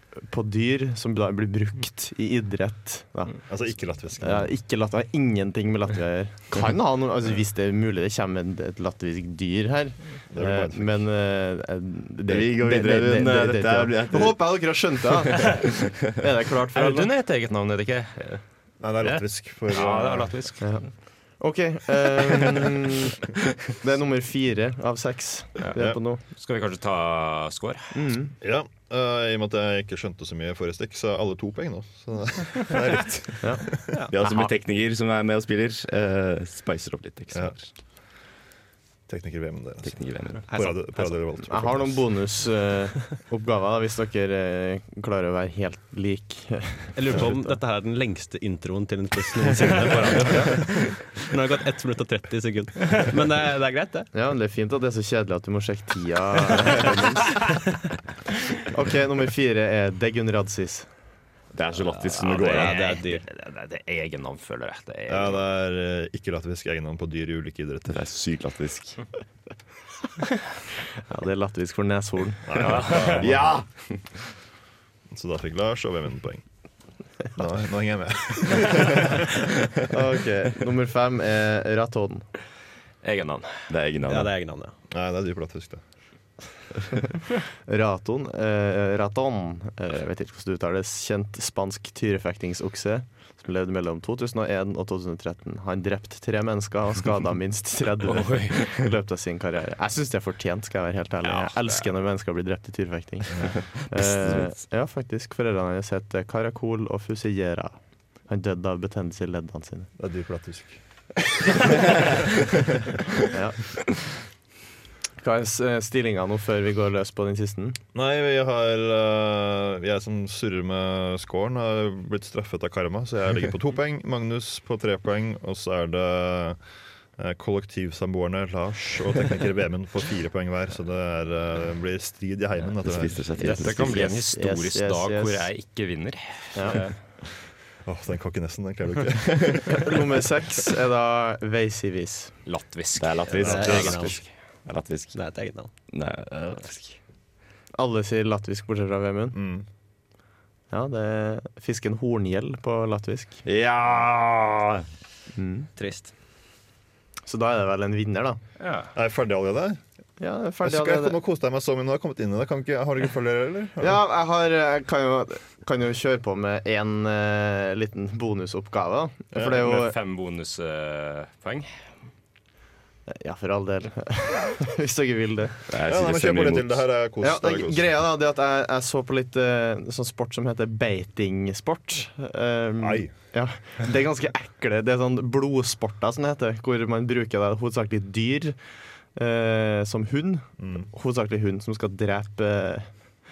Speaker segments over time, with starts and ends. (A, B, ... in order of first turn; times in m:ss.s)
0:00.2-0:03.5 A
0:03.5-0:04.5 B
0:04.2-0:17.1 A
0:10.3-0:11.1 B
0:12.3-0:14.7 C
0:16.7-0:18.4 D
0:18.8-0:20.3 B
0:19.0-0:20.7 D
0:20.6-0:23.2 A
0:23.8-0:26.2 A
0:26.3-0:27.9 D
0:27.9-0:28.3 A
0:28.4-0:33.7 B
0:33.4-0:34.5 A
0:34.1-0:37.7 C
0:39.1-0:42.0 B
0:39.8-0:40.4 C
0:40.5-0:41.4 E
0:41.5-0:47.5 A
0:47.0-0:54.1 E
0:54.1-0:57.5 A
0:58.6-1:00.9 A
1:01.5-1:02.8 C
1:02.0-1:05.4 D
1:02.5-1:03.2 E
1:05.1-1:08.0 B
1:07.9-1:09.0 C
1:11.1-1:12.5 A
1:12.5-1:13.6 B
1:12.6-1:13.3 D
1:13.1-1:14.0 C
1:15.1-1:16.4 B
1:17.3-1:19.4 B
1:19.9-1:22.2 A
1:23.0-1:23.5 D
1:23.7-1:24.3 C
1:24.1-1:24.7 E
1:24.9-1:25.8 B
1:27.7-1:47.8 A
1:38.0-1:38.7 D
1:41.2-1:41.8 D
1:43.9-1:44.6 C
1:48.3-1:49.9 A
1:50.0-1:50.8 B
1:51.7-1:52.2 B
1:53.3-1:53.7 A
1:55.2-1:57.8 A
1:57.9-2:06.6 B
2:07.2-2:13.3 B
2:12.8-2:14.1 C
2:13.4-2:16.9 D
2:13.4-2:15.5 A
2:17.8-2:20.0 B
2:19.7-2:22.3 A
2:22.4-2:24.1 D
2:22.9-2:25.2 C
2:23.4-2:24.2 E
2:23.4-2:23.9 B
2:25.1-2:25.7 E
2:25.9-2:27.0 C
2:27.7-2:29.4 A
2:29.3-2:29.6 B
2:30.7-2:33.4 A
2:33.4-2:34.8 C
2:35.4-2:35.7 A
2:35.8-2:36.1 E
2:37.2-2:38.4 A
2:38.6-2:38.9 D
2:38.9-2:39.8 B
2:40.2-2:41.2 A
2:40.6-2:44.0 B
2:43.8-2:49.9 A
2:49.4-2:51.7 D
2:53.1-2:55.6 A
2:55.7-2:56.9 C
2:55.8-2:57.8 B
2:57.2-3:08.6 A
3:02.8-3:03.1 B
3:09.1-3:12.9 A
3:10.6-3:10.9 B